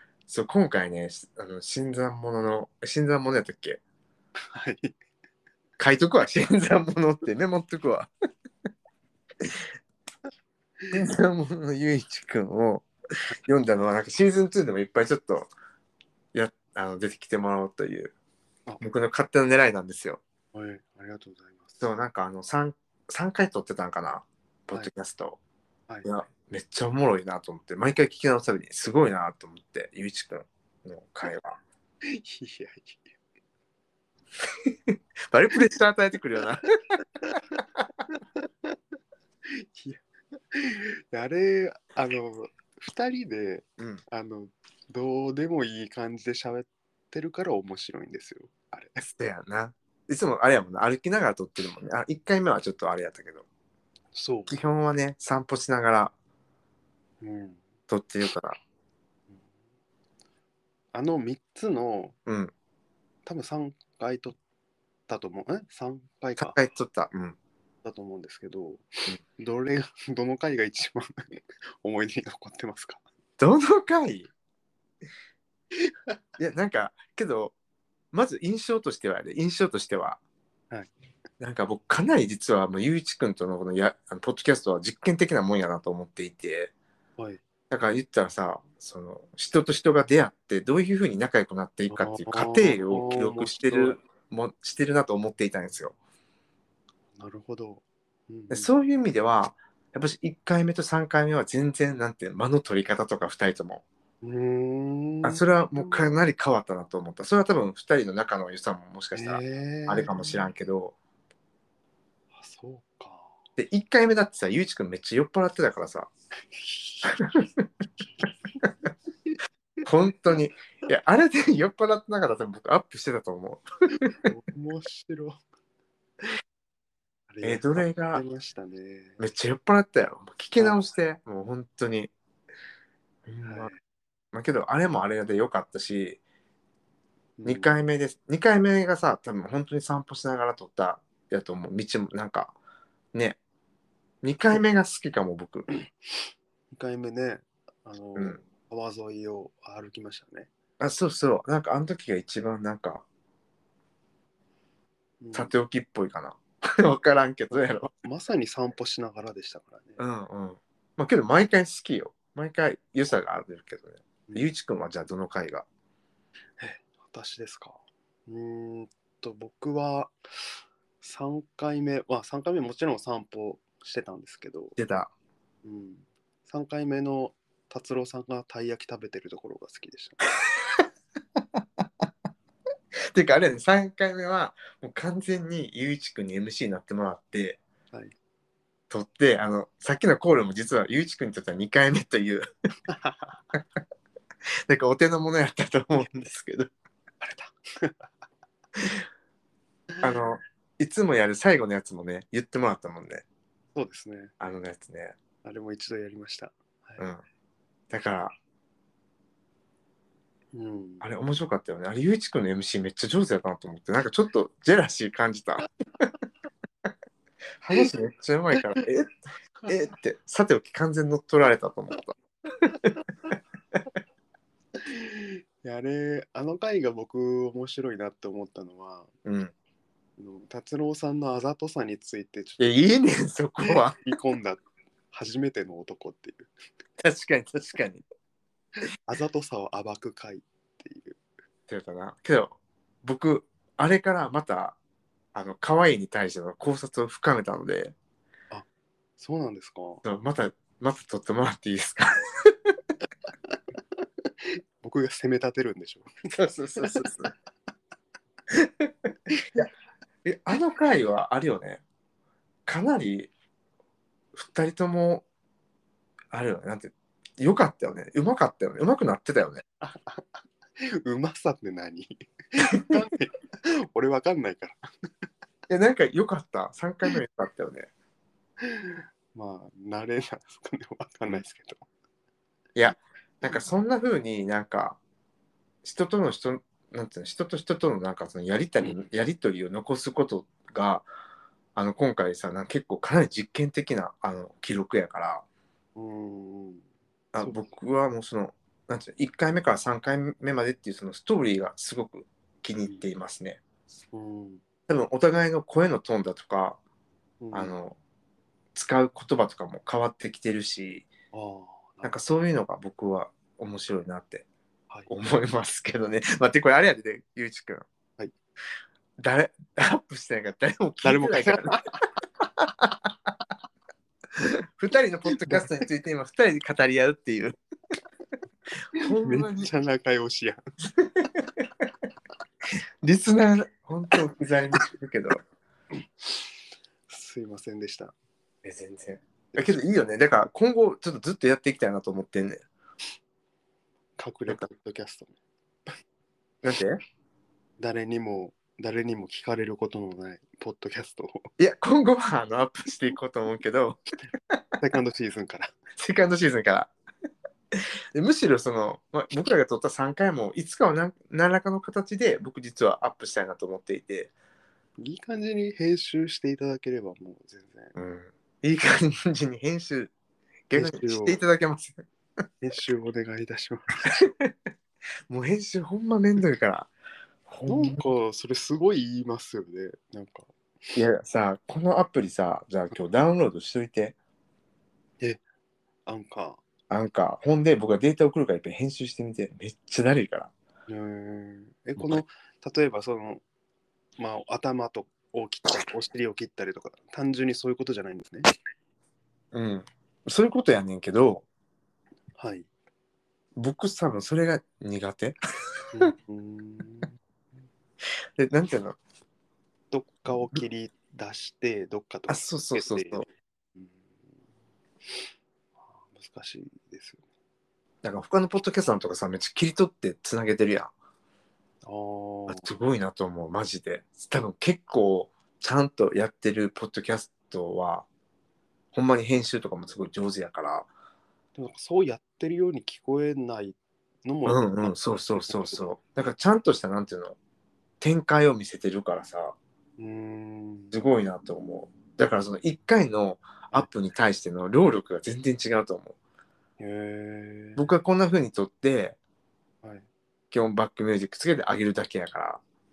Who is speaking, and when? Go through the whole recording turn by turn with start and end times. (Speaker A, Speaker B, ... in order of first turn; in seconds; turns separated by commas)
Speaker A: 0.3-3.8, Speaker B: 4.5-4.9, Speaker A: 5.8-8.1, Speaker A: 10.9-12.8, Speaker A: 13.4-15.5, Speaker A: 16.3-18.1, Speaker A: 18.8-20.2, Speaker B: 20.5-21.8, Speaker A: 21.8-25.4, Speaker A: 26.0-31.6, Speaker B: 32.0-33.0, Speaker A: 34.5-36.7, Speaker B: 38.4-38.7, Speaker B: 39.5-48.9, Speaker A: 49.0-53.4, Speaker B: 54.1-54.5, Speaker A: 54.5-56.1, Speaker B: 57.2-57.6, Speaker A: 57.9-58.6, Speaker B: 60.9-62.1, Speaker A: 62.2-62.5, Speaker B: 63.2-64.4, Speaker B: 65.1-66.6, Speaker A: 66.4-67.4, Speaker B: 67.8-73.0, Speaker A: 73.4-74.3, Speaker A: 76.4-77.5, Speaker A: 78.1-80.2, Speaker A: 81.4-86.7, Speaker A: 87.7-95.9, Speaker B: 91.9-94.0, Speaker B: 97.2-98.7, Speaker A: 98.5-103.8, Speaker B: 104.2-106.1, Speaker A: 105.2-110.9, Speaker B: 109.1-110.4, Speaker B: 112.3-113.3, Speaker A: 113.6-116.1, Speaker B: 116.5-117.2, Speaker A: 117.0-117.7, Speaker A: 119.8-124.2, Speaker B: 124.0-125.4, Speaker B: 127.3-129.2, Speaker A: 127.4-128.2, Speaker A: 129.2-132.1, Speaker A: 133.2-133.7, Speaker B: 133.4-133.8, Speaker A: 134.3-136.2, Speaker B: 137.4-137.7, Speaker A: 137.4-142.5, Speaker A: 143.1-143.4, Speaker A: 144.2-145.7, Speaker B: 146.7-150.5, Speaker A: 148.2-148.4, Speaker A: 150.8-153.0, Speaker B: 155.2-155.5, Speaker A: 155.3-157.9, Speaker B: 157.5-160.0, Speaker A: 160.0-165.7, Speaker B: 166.6-170.1, Speaker B: 171.0-174.8, Speaker A: 174.8-175.1, Speaker B: 175.6-180.3, Speaker A: 180.5-180.8, Speaker A: 181.6-182.0, Speaker A: 183.1-187.6, Speaker A: 188.9-192.5, Speaker B: 192.9-193.4, Speaker A: 194.7-196.7, Speaker B: 197.2-198.1, Speaker A: 200.0-203.2, Speaker B: 203.7-204.3, Speaker A: 204.4-205.2, Speaker B: 205.4-207.0, Speaker A: 207.9-208.3, Speaker B: 210.5-211.1, Speaker A: 211.0-215.7, Speaker A: 217.6-222.2, Speaker B: 224.8-229.1, Speaker A: 229.2-229.5, Speaker B: 230.2-232.8, Speaker A: 232.6-234.0, Speaker B: 233.6-236.5, Speaker A: 237.0-238.0, Speaker B: 239.0-241.2, Speaker A: 241.7-244.8, Speaker A: 245.3-247.9, Speaker B: 249.2-250.0, Speaker A: 250.0-252.7, Speaker B: 254.4-256.1, Speaker A: 256.3-257.3, Speaker B: 256.8-257.1, Speaker A: 258.5-259.7, Speaker A: 260.2-261.8, Speaker A: 262.6-263.3, Speaker A: 264.3-265.2, Speaker A: 266.3-269.6, Speaker B: 269.8-274.8, Speaker A: 275.7-277.9, Speaker B: 278.6-281.9, Speaker A: 282.8-285.0, Speaker A: 285.8-291.1, Speaker A: 291.7-295.4, Speaker B: 295.9-296.8, Speaker A: 297.3-303.6, Speaker B: 297.4-297.6, Speaker B: 304.1-304.6, Speaker A: 304.9-306.8, Speaker B: 307.4-307.7, Speaker A: 307.5-308.0, Speaker A: 308.7-311.1, Speaker B: 311.3-312.1, Speaker A: 312.0-314.4, Speaker A: 315.1-317.9, Speaker A: 319.2-321.8, Speaker B: 321.0-321.9, Speaker A: 322.6-322.9, Speaker A: 324.4-327.6, Speaker B: 325.4-325.7, Speaker A: 328.9-329.7, Speaker B: 329.0-330.6, Speaker A: 331.0-331.7, Speaker A: 333.0-335.4, Speaker B: 337.1-338.1, Speaker A: 338.6-342.6, Speaker B: 339.5-339.8, Speaker B: 344.2-345.3, Speaker A: 346.6-347.0, Speaker B: 347.8-351.5, Speaker A: 351.6-354.0, Speaker B: 354.8-355.7, Speaker A: 356.0-356.9, Speaker A: 357.7-364.3, Speaker B: 365.0-367.9, Speaker A: 367.9-370.1, Speaker A: 370.7-372.0, Speaker B: 370.7-371.4, Speaker B: 372.6-374.1, Speaker A: 374.2-374.5, Speaker A: 375.3-376.9, Speaker A: 377.5-378.0, Speaker B: 377.7-380.5, Speaker A: 380.9-384.1, Speaker B: 386.1-386.6, Speaker A: 386.9-390.5, Speaker B: 390.9-393.4, Speaker A: 392.0-392.2, Speaker B: 394.2-398.5, Speaker A: 399.5-401.4, Speaker B: 402.4-402.7, Speaker A: 403.6-405.4, Speaker B: 405.9-407.1, Speaker A: 408.4-409.0, Speaker B: 409.9-414.0, Speaker A: 412.3-413.2, Speaker B: 415.8-417.2, Speaker A: 418.0-420.9, Speaker B: 421.8-422.7, Speaker A: 422.5-428.1, Speaker A: 428.9-430.9, Speaker B: 431.6-435.8, Speaker A: 434.4-437.4, Speaker A: 438.0-439.6, Speaker B: 440.0-440.9, Speaker A: 440.9-446.1, Speaker B: 446.8-447.8, Speaker A: 447.8-449.2, Speaker A: 450.5-452.6